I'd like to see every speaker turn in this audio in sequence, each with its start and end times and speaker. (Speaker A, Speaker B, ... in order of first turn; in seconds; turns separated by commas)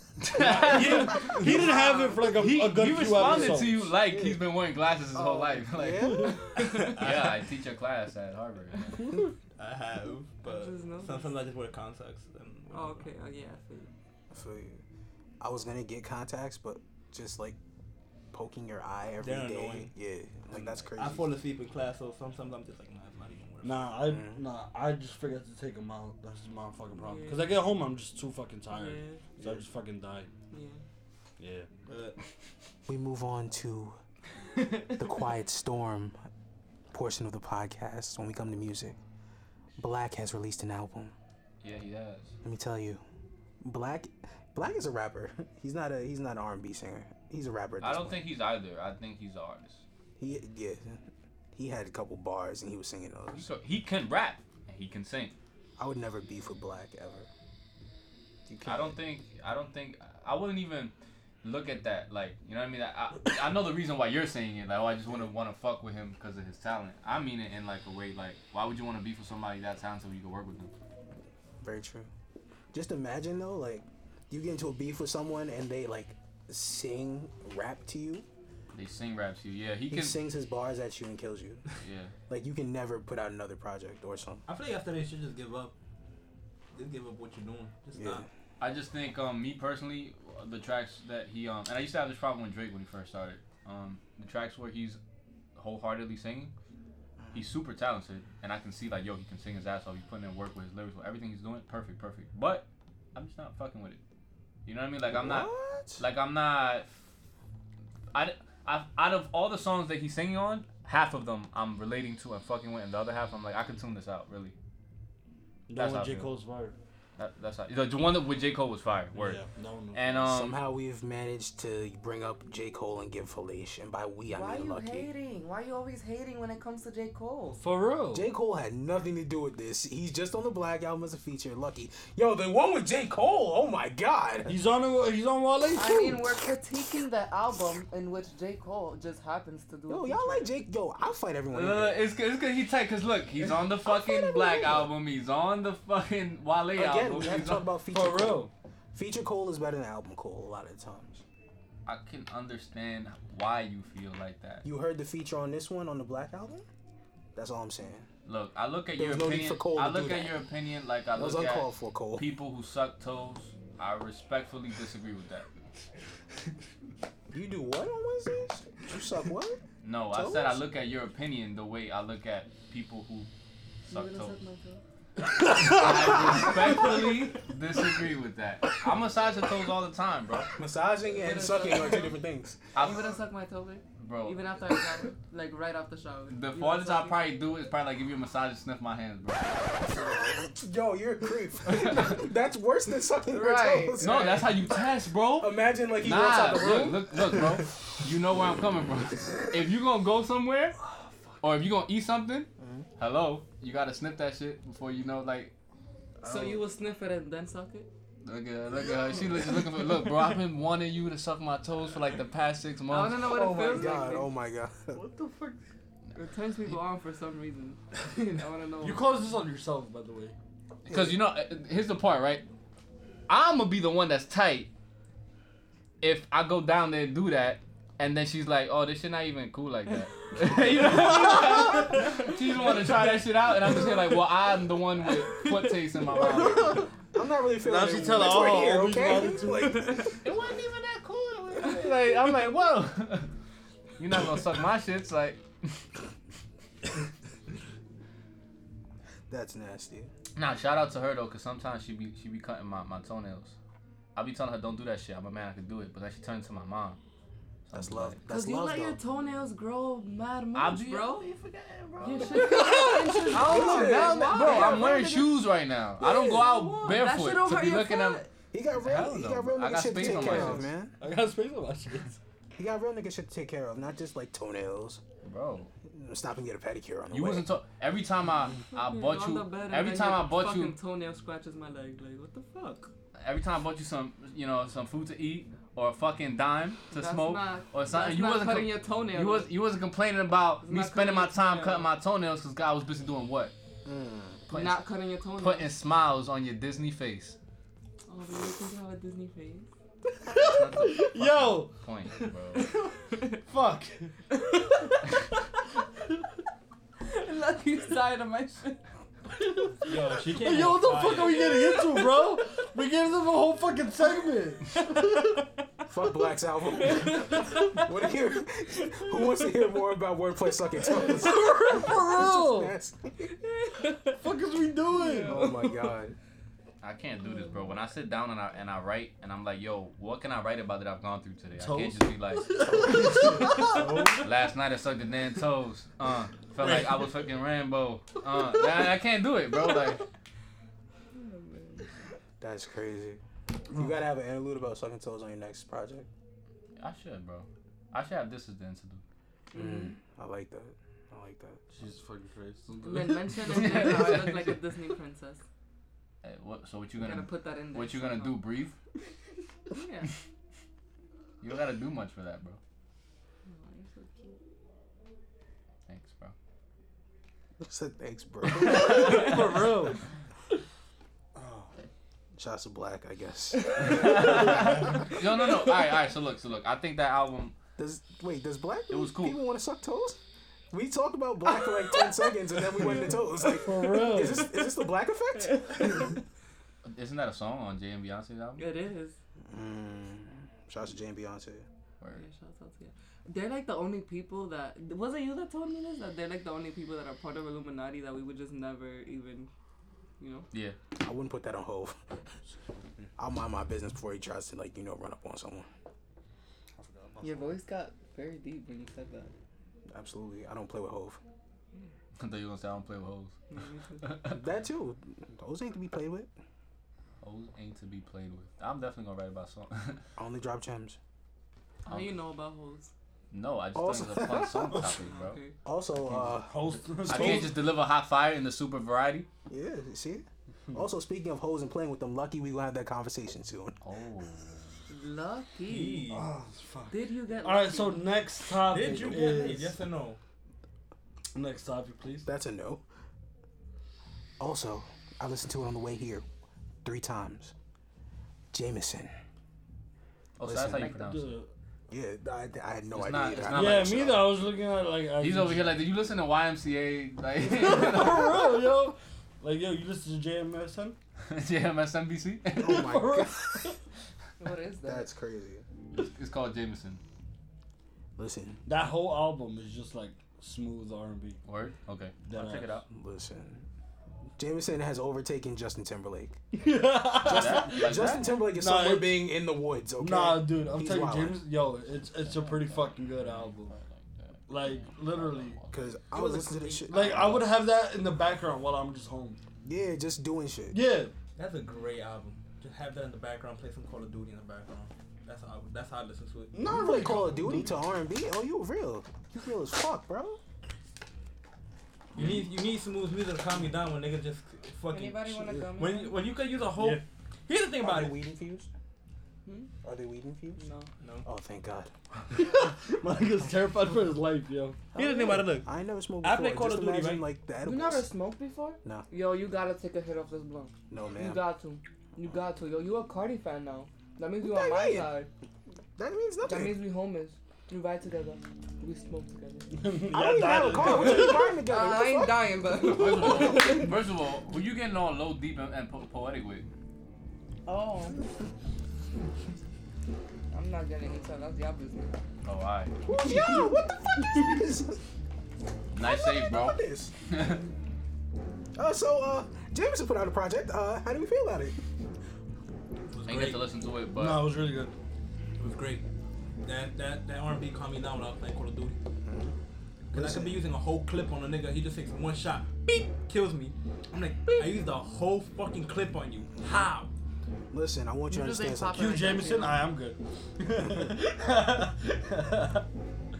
Speaker A: 0.2-1.5, Speaker B: 0.3-3.9, Speaker C: 0.8-2.4, Speaker D: 1.3-1.6, Speaker A: 2.3-9.0, Speaker E: 4.0-4.4, Speaker E: 5.1-6.5, Speaker D: 6.5-7.4, Speaker D: 9.6-13.1, Speaker C: 10.4-11.3, Speaker C: 12.7-13.9, Speaker E: 14.3-14.8, Speaker E: 15.4-17.6, Speaker E: 18.3-21.3, Speaker D: 19.2-19.9, Speaker D: 20.5-23.9, Speaker B: 23.6-30.3, Speaker E: 24.1-24.4, Speaker C: 26.9-27.5, Speaker C: 28.7-29.2, Speaker C: 30.5-30.8, Speaker B: 31.4-31.7, Speaker D: 31.9-32.2, Speaker E: 32.9-34.0, Speaker E: 34.9-36.2, Speaker E: 36.9-39.0, Speaker E: 39.8-41.1, Speaker A: 41.6-42.3, Speaker E: 42.4-43.0, Speaker E: 43.6-48.2, Speaker A: 47.8-49.8, Speaker E: 50.2-53.5, Speaker A: 53.3-55.4, Speaker E: 55.8-57.3, Speaker E: 58.5-59.0, Speaker A: 58.6-70.7, Speaker E: 71.6-72.1, Speaker E: 72.7-78.2, Speaker A: 78.7-80.2, Speaker E: 79.9-81.6, Speaker A: 81.8-82.1, Speaker E: 82.3-84.4, Speaker D: 84.5-85.8, Speaker D: 86.7-88.2, Speaker E: 88.0-88.3, Speaker A: 88.6-95.0, Speaker A: 95.5-96.5, Speaker E: 97.2-97.4, Speaker A: 97.3-104.0, Speaker A: 104.6-106.9, Speaker E: 105.1-106.0, Speaker A: 108.1-114.5, Speaker B: 115.7-116.7, Speaker A: 115.8-116.3, Speaker A: 117.2-119.4, Speaker B: 119.1-120.2, Speaker A: 119.9-120.6, Speaker E: 120.2-125.1, Speaker C: 124.3-127.6, Speaker B: 127.6-128.3, Speaker E: 128.1-134.5, Speaker B: 134.5-136.2, Speaker C: 135.7-140.5, Speaker E: 139.9-142.0, Speaker A: 141.5-147.7, Speaker C: 143.9-144.6, Speaker E: 146.7-151.2, Speaker B: 147.9-148.5, Speaker A: 151.8-154.6, Speaker E: 154.6-156.6, Speaker E: 157.3-158.1, Speaker A: 158.2-165.5, Speaker E: 158.9-160.4, Speaker E: 161.2-162.3, Speaker E: 167.3-169.6, Speaker A: 169.8-173.3, Speaker E: 170.1-170.6, Speaker A: 173.8-174.3, Speaker C: 173.9-174.8, Speaker B: 175.2-176.2, Speaker A: 175.5-180.5, Speaker E: 180.6-182.6, Speaker C: 181.1-182.2, Speaker A: 182.7-183.1, Speaker C: 182.8-187.2, Speaker A: 184.0-184.4, Speaker A: 186.3-189.9, Speaker E: 190.2-194.8, Speaker A: 191.7-192.2, Speaker C: 193.3-194.4, Speaker A: 194.0-200.8, Speaker E: 195.3-197.6, Speaker B: 200.8-201.3, Speaker A: 201.4-205.5, Speaker E: 202.6-202.8, Speaker E: 206.2-206.6, Speaker C: 206.2-207.9, Speaker A: 208.2-213.4, Speaker C: 212.9-214.3, Speaker E: 213.3-215.0, Speaker B: 214.9-215.6, Speaker C: 216.2-219.1, Speaker B: 218.8-220.3, Speaker A: 220.8-222.4, Speaker E: 220.9-221.2, Speaker A: 223.3-224.7, Speaker A: 226.0-236.9, Speaker C: 230.5-232.4, Speaker C: 233.7-234.0, Speaker C: 235.1-236.8, Speaker E: 236.2-240.1, Speaker B: 237.6-239.9, Speaker C: 239.5-240.1, Speaker A: 240.2-243.3, Speaker A: 244.0-245.8, Speaker E: 249.3-250.1, Speaker A: 250.3-253.6, Speaker A: 254.1-257.0, Speaker A: 257.7-258.2, Speaker E: 257.7-259.0, Speaker C: 258.3-261.3, Speaker A: 260.5-262.6, Speaker C: 262.0-265.3, Speaker B: 262.3-263.5, Speaker A: 263.3-268.2, Speaker E: 263.4-264.9, Speaker E: 266.0-266.5, Speaker C: 266.1-268.3, Speaker E: 268.5-270.9, Speaker A: 268.8-270.7, Speaker B: 270.1-272.2, Speaker E: 272.6-275.0, Speaker A: 275.2-275.7, Speaker E: 275.9-277.5, Speaker A: 277.1-280.8, Speaker C: 278.7-282.9, Speaker A: 283.1-293.5, Speaker C: 286.9-289.5, Speaker C: 290.6-291.9, Speaker E: 293.8-294.4, Speaker A: 294.5-297.4, Speaker C: 294.5-295.7, Speaker C: 298.1-299.7, Speaker B: 300.3-301.7, Speaker A: 300.3-302.6, Speaker B: 302.6-304.1, Speaker C: 304.3-305.0, Speaker C: 307.0-308.8, Speaker B: 309.3-315.4, Speaker D: 309.8-311.5, Speaker C: 311.3-312.3, Speaker C: 314.8-315.4, Speaker E: 315.9-323.3, Speaker C: 316.8-317.8, Speaker B: 321.0-322.7, Speaker C: 323.4-324.2, Speaker B: 324.1-325.5, Speaker C: 324.9-325.9, Speaker E: 325.2-326.1, Speaker A: 326.8-332.6, Speaker C: 327.2-327.7, Speaker B: 331.6-334.2, Speaker E: 332.6-334.1, Speaker A: 334.2-340.0, Speaker B: 336.6-337.2, Speaker C: 341.1-341.9, Speaker E: 342.4-343.2, Speaker E: 343.7-346.1, Speaker A: 346.8-349.0, Speaker C: 349.5-350.0, Speaker E: 349.5-351.6, Speaker B: 351.7-353.9, Speaker C: 352.8-355.4, Speaker A: 353.4-354.6, Speaker A: 356.2-358.8, Speaker C: 356.9-358.4, Speaker C: 359.7-360.1, Speaker A: 361.4-362.6, Speaker C: 363.4-364.4, Speaker A: 365.9-366.3, Speaker E: 367.6-369.5, Speaker B: 368.5-370.0, Speaker B: 371.4-371.7, Speaker E: 372.4-374.7, Speaker A: 373.8-377.5, Speaker C: 373.9-374.1, Speaker E: 377.8-380.2, Speaker A: 378.9-379.4, Speaker E: 380.7-386.1, Speaker B: 383.4-384.6, Speaker C: 385.5-386.1, Speaker A: 386.8-388.7, Speaker C: 388.6-389.1, Speaker E: 389.5-391.6, Speaker C: 392.1-399.5, Speaker C: 400.2-400.4, Speaker E: 401.0-402.0, Speaker E: 403.2-405.7, Speaker B: 406.8-407.5, Speaker C: 407.2-409.3, Speaker E: 409.9-411.2, Speaker A: 412.2-413.3, Speaker C: 413.5-414.1, Speaker A: 414.0-414.4, Speaker E: 414.3-416.3, Speaker A: 417.2-420.0, Speaker E: 420.2-421.0, Speaker C: 421.9-422.9, Speaker A: 421.9-422.2, Speaker A: 423.3-425.4, Speaker E: 423.7-424.9, Speaker C: 425.0-425.5, Speaker E: 425.6-427.5, Speaker B: 426.1-427.6, Speaker A: 427.1-429.3, Speaker E: 429.5-433.8, Speaker A: 433.8-434.6, Speaker C: 434.9-436.1, Speaker D: 435.7-436.3, Speaker B: 436.1-439.8, Speaker C: 436.9-438.1, Speaker D: 438.6-440.2, Speaker B: 441.3-442.3, Speaker E: 442.2-442.8, Speaker E: 444.4-446.2, Speaker E: 446.8-447.5, Speaker E: 448.5-449.1, Speaker A: 450.4-451.4, Speaker E: 450.4-450.9, Speaker B: 450.6-451.5, Speaker E: 451.9-454.0, Speaker A: 452.9-454.3, Speaker B: 453.5-455.8, Speaker A: 455.2-458.4, Speaker B: 457.4-460.9, Speaker A: 461.3-462.9, Speaker B: 462.6-463.8, Speaker E: 462.6-463.7, Speaker C: 464.4-465.1, Speaker E: 464.9-465.6, Speaker A: 465.9-467.0, Speaker E: 468.2-468.6, Speaker B: 468.6-471.4, Speaker A: 471.4-472.9, Speaker B: 472.3-472.8, Speaker E: 472.9-473.6, Speaker E: 474.4-476.4, Speaker B: 476.5-479.2, Speaker A: 477.1-478.4, Speaker E: 477.1-481.4, Speaker B: 480.0-483.7, Speaker A: 482.1-486.0, Speaker B: 484.5-485.6, Speaker E: 485.7-487.4, Speaker D: 486.1-487.4, Speaker B: 486.9-489.4, Speaker E: 489.6-490.8, Speaker B: 490.7-491.1, Speaker D: 491.4-496.6, Speaker B: 496.5-497.8, Speaker E: 496.6-500.4, Speaker D: 502.1-508.2, Speaker C: 504.9-506.2, Speaker B: 506.7-507.0, Speaker E: 507.8-508.7, Speaker C: 509.4-509.7, Speaker E: 509.8-510.6, Speaker C: 510.6-510.9, Speaker D: 511.0-511.2, Speaker E: 511.2-511.9, Speaker B: 512.3-514.9, Speaker D: 514.9-515.7, Speaker E: 515.0-518.1, Speaker D: 516.2-517.2, Speaker C: 517.6-525.3, Speaker E: 520.9-521.4, Speaker E: 524.4-525.2, Speaker E: 526.0-526.8, Speaker C: 526.4-530.0, Speaker B: 529.7-531.5, Speaker E: 530.1-532.5, Speaker C: 530.8-533.9, Speaker A: 532.8-536.7, Speaker C: 537.6-538.2, Speaker C: 540.5-542.2, Speaker A: 542.4-542.9, Speaker E: 543.0-545.0, Speaker A: 545.9-547.6, Speaker E: 546.0-547.1, Speaker E: 548.8-551.8, Speaker D: 553.1-553.7, Speaker A: 553.2-554.5, Speaker B: 554.1-554.9, Speaker D: 555.6-556.0, Speaker D: 556.6-559.0, Speaker E: 559.2-559.5, Speaker D: 560.1-567.1, Speaker E: 560.1-560.6, Speaker E: 567.7-569.1, Speaker C: 568.3-569.8, Speaker B: 568.9-572.8